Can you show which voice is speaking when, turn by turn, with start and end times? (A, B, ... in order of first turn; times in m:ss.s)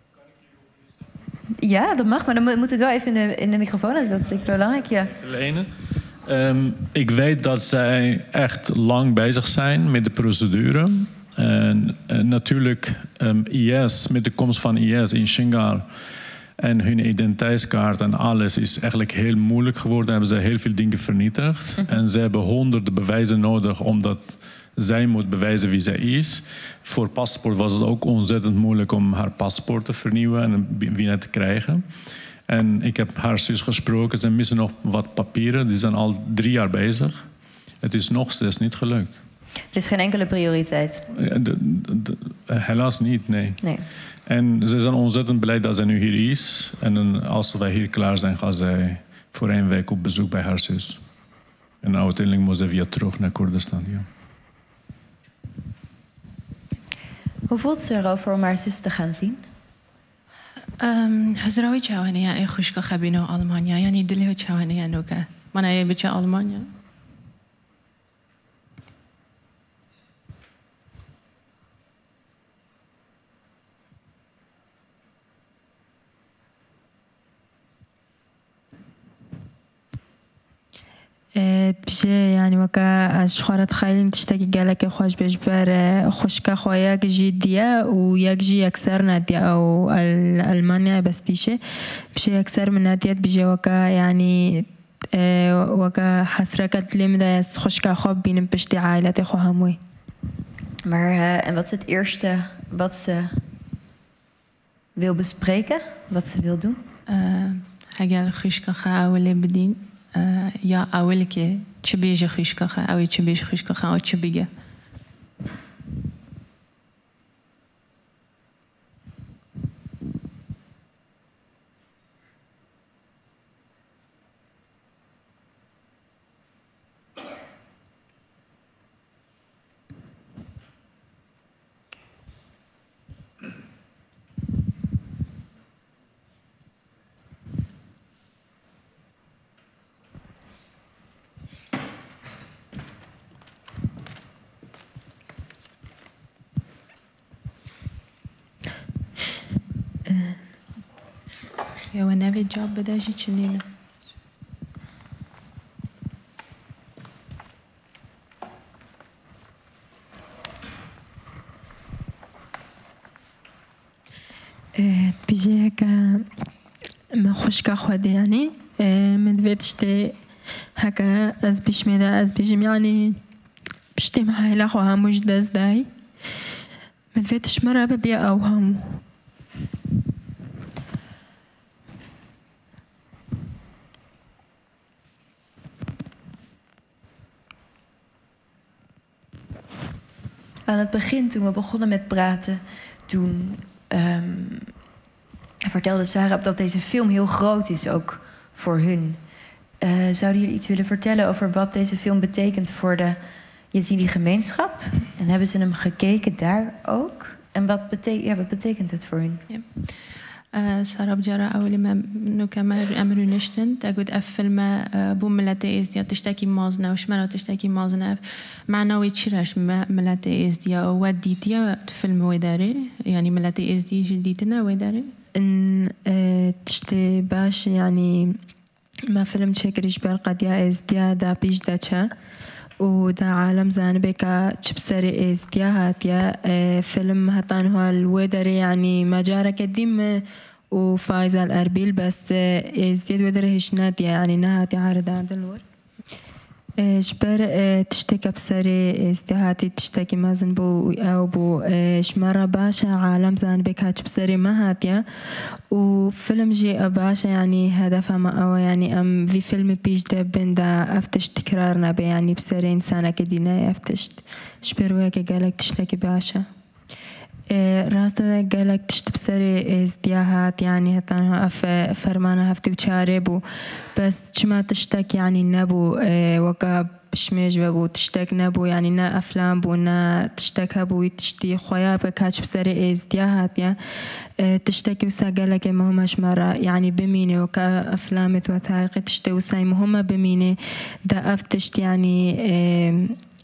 0:01.6-0:05.1 A
0:05.2-0:15.9 B
0:16.6-0:31.9 B
0:32.5-0:37.2 B
0:37.8-0:39.2 B
0:39.7-0:41.0 A
0:41.1-0:43.7 B
0:43.6-0:43.8 A
0:44.2-0:51.0 B
0:51.8-0:54.1 B
0:57.5-0:59.5 A
1:00.8-1:06.7 C
1:21.4-1:31.6 D
1:32.1-1:39.8 D
1:40.8-1:43.4 A
1:45.0-1:46.8 A
1:47.1-1:54.5 C
2:31.9-2:33.6 C
2:44.7-2:46.3 D
2:47.1-2:50.2 D
2:50.8-2:53.2 D
2:53.9-2:55.9 D
2:57.1-2:59.0 D
3:10.6-3:14.7 A
3:15.6-3:19.2 A
3:19.8-3:23.2 A
3:23.7-3:29.4 A
3:29.5-3:45.1 C
3:45.4-3:48.4 D
3:49.1-3:52.1 D
3:52.8-4:05.6 D
4:06.8-4:26.5 D
4:27.5-4:53.2 D